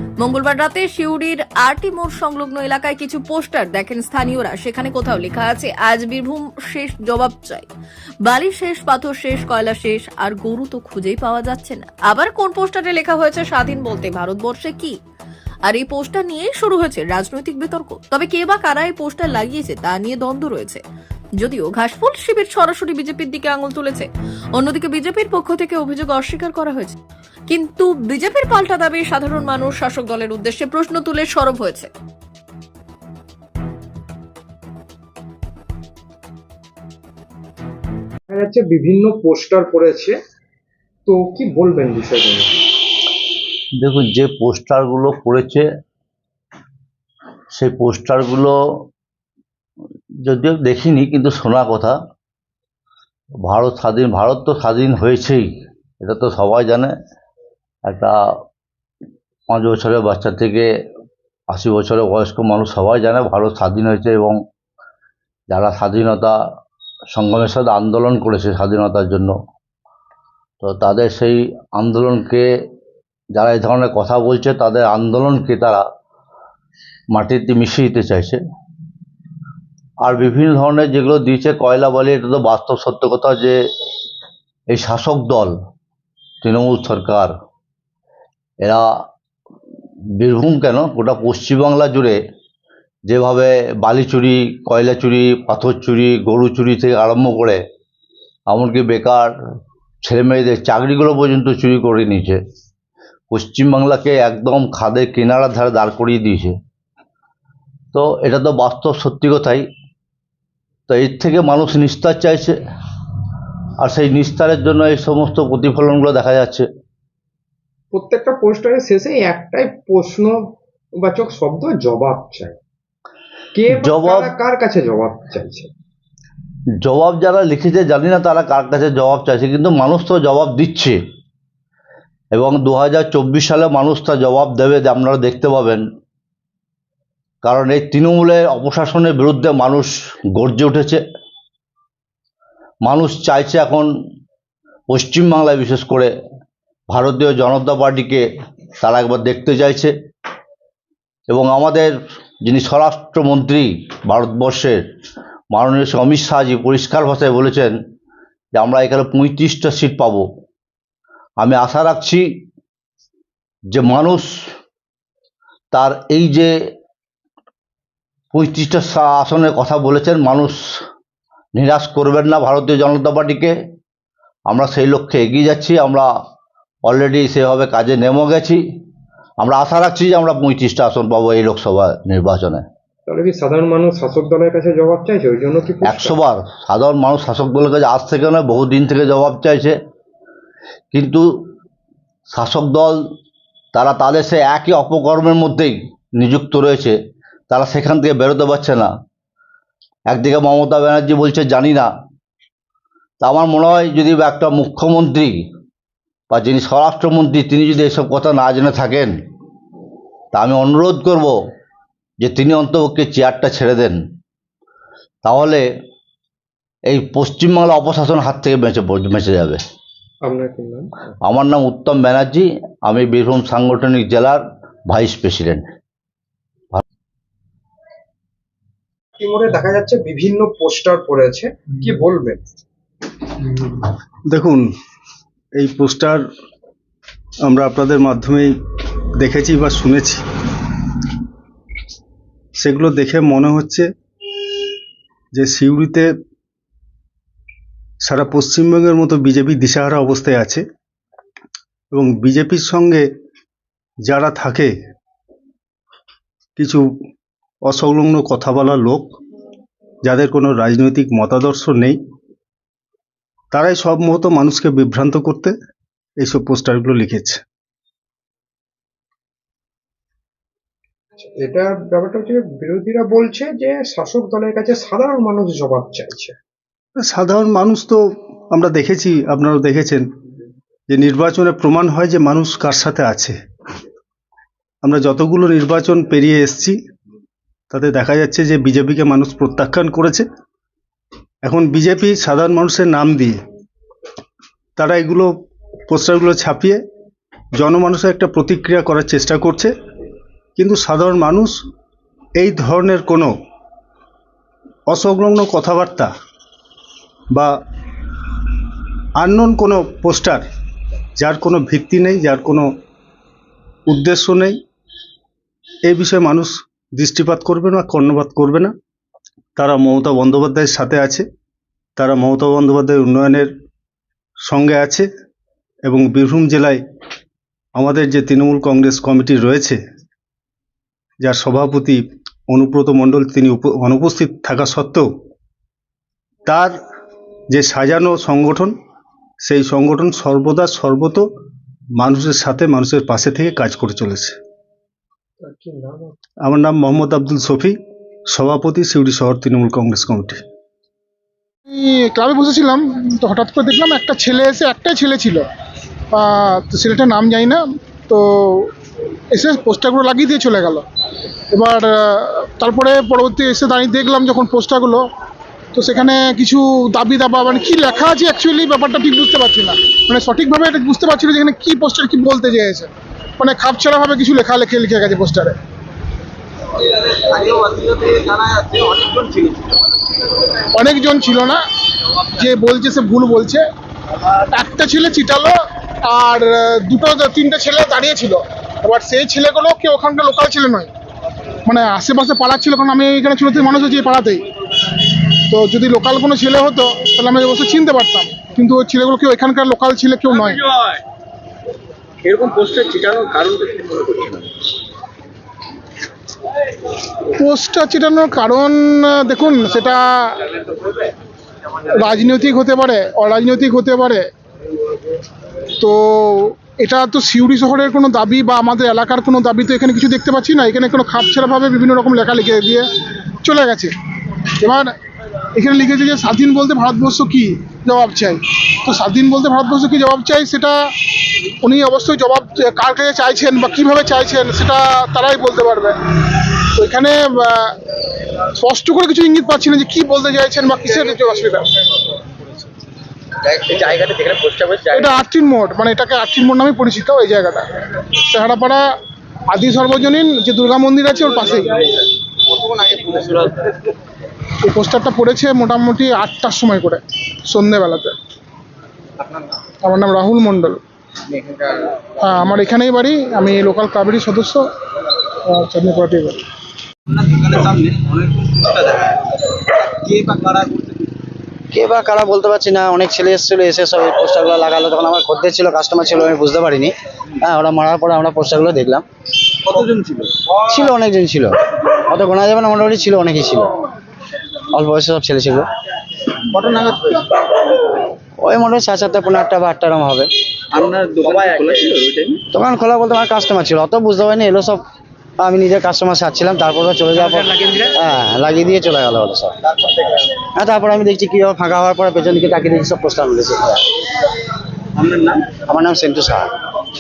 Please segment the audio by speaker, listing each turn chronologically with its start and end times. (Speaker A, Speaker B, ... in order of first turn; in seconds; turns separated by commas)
Speaker A: 0.2-7.7, Speaker A: 8.2-15.0, Speaker A: 15.7-20.8, Speaker A: 21.4-27.0, Speaker A: 27.5-31.9, Speaker B: 38.3-40.2, Speaker B: 41.1-42.6, Speaker C: 43.8-45.7, Speaker C: 47.5-48.5, Speaker C: 50.3-52.0, Speaker C: 53.5-55.5, Speaker C: 56.0-56.9, Speaker C: 57.9-58.1, Speaker C: 59.5-60.7, Speaker C: 61.5-64.4, Speaker C: 65.5-66.3, Speaker C: 67.1-69.3, Speaker C: 70.6-72.5, Speaker C: 73.3-75.8, Speaker C: 77.1-78.4, Speaker C: 80.0-83.6, Speaker C: 84.7-85.5, Speaker C: 86.4-87.3, Speaker C: 88.6-88.9, Speaker C: 90.2-92.2, Speaker C: 93.1-97.6, Speaker C: 98.5-99.3, Speaker C: 100.0-102.4, Speaker C: 103.3-106.5, Speaker C: 107.9-109.7, Speaker C: 110.9-112.6, Speaker C: 113.8-116.7, Speaker B: 117.9-120.4, Speaker B: 121.0-122.6, Speaker B: 123.5-125.7, Speaker C: 123.8-124.3, Speaker C: 126.8-131.0, Speaker C: 132.3-135.8, Speaker C: 137.4-141.0, Speaker C: 142.9-143.9, Speaker C: 144.9-146.1, Speaker C: 146.9-148.2, Speaker C: 148.8-149.9, Speaker C: 151.3-151.9, Speaker C: 152.5-154.8, Speaker C: 155.5-157.8, Speaker C: 158.6-160.2, Speaker C: 161.4-162.3, Speaker C: 163.7-164.3, Speaker C: 165.7-166.5, Speaker C: 168.3-170.6, Speaker C: 171.6-173.5, Speaker C: 174.5-176.1, Speaker C: 176.9-178.6, Speaker C: 179.4-182.6, Speaker B: 183.1-186.2, Speaker C: 185.8-189.8, Speaker C: 190.9-191.2, Speaker C: 192.3-193.0, Speaker C: 193.7-197.0, Speaker C: 197.5-198.9, Speaker C: 200.1-201.9, Speaker C: 203.2-205.3, Speaker C: 206.3-209.1, Speaker C: 210.3-211.4, Speaker C: 212.2-214.0, Speaker C: 215.2-215.6, Speaker C: 216.9-219.6, Speaker B: 220.2-220.9, Speaker C: 221.2-225.6, Speaker B: 229.2-232.4, Speaker D: 234.3-234.7, Speaker D: 235.6-236.2, Speaker D: 237.4-238.5, Speaker D: 239.2-240.2, Speaker D: 242.6-243.9, Speaker D: 245.3-246.1, Speaker D: 248.1-250.6, Speaker D: 251.9-253.1, Speaker D: 254.1-254.7, Speaker D: 256.6-256.8, Speaker D: 257.7-259.1, Speaker D: 260.1-262.0, Speaker D: 263.5-265.5, Speaker D: 266.2-267.4, Speaker B: 271.2-276.4, Speaker D: 277.0-278.0, Speaker D: 278.5-280.1, Speaker D: 280.9-283.4, Speaker D: 284.8-286.8, Speaker D: 287.7-290.3, Speaker D: 291.4-293.4, Speaker D: 294.8-295.3, Speaker D: 295.9-296.8, Speaker D: 297.6-299.7, Speaker D: 300.6-301.6, Speaker D: 302.4-303.3, Speaker D: 304.9-306.1, Speaker D: 309.2-310.4, Speaker D: 311.2-312.7, Speaker D: 313.9-314.6, Speaker D: 315.9-318.7, Speaker D: 319.6-321.3, Speaker D: 322.0-323.5, Speaker D: 324.5-325.1, Speaker D: 325.9-326.8, Speaker D: 327.8-329.8, Speaker D: 331.2-335.1, Speaker D: 336.5-336.8, Speaker D: 337.5-338.8, Speaker D: 339.4-341.3, Speaker D: 342.0-344.4, Speaker B: 345.4-346.1, Speaker D: 346.5-347.8, Speaker D: 348.3-350.4, Speaker E: 351.7-355.5, Speaker E: 356.1-358.7, Speaker E: 359.3-360.9, Speaker E: 361.5-365.1, Speaker E: 365.7-375.6, Speaker F: 377.2-379.6, Speaker E: 380.7-381.6, Speaker E: 382.3-383.6, Speaker E: 384.5-390.9, Speaker E: 391.7-394.4, Speaker E: 395.5-400.6, Speaker F: 402.2-404.5, Speaker E: 407.4-410.5, Speaker E: 411.9-414.3, Speaker E: 415.8-422.9, Speaker E: 423.4-423.9, Speaker E: 424.6-424.9, Speaker E: 425.6-430.8, Speaker E: 431.6-437.8, Speaker E: 438.6-441.7, Speaker F: 443.5-445.1, Speaker E: 444.9-448.8, Speaker E: 449.5-451.9, Speaker F: 452.8-453.7, Speaker E: 454.6-458.1, Speaker E: 459.8-460.8, Speaker E: 462.2-464.7, Speaker E: 465.5-466.4, Speaker F: 467.2-469.2, Speaker F: 470.0-471.0, Speaker G: 471.7-479.1, Speaker F: 479.8-480.3, Speaker G: 480.7-483.8, Speaker G: 484.7-485.7, Speaker F: 486.5-487.2, Speaker G: 488.4-490.3, Speaker F: 490.7-492.4, Speaker G: 492.5-494.9, Speaker G: 495.4-499.6, Speaker G: 500.4-503.9, Speaker G: 505.0-506.6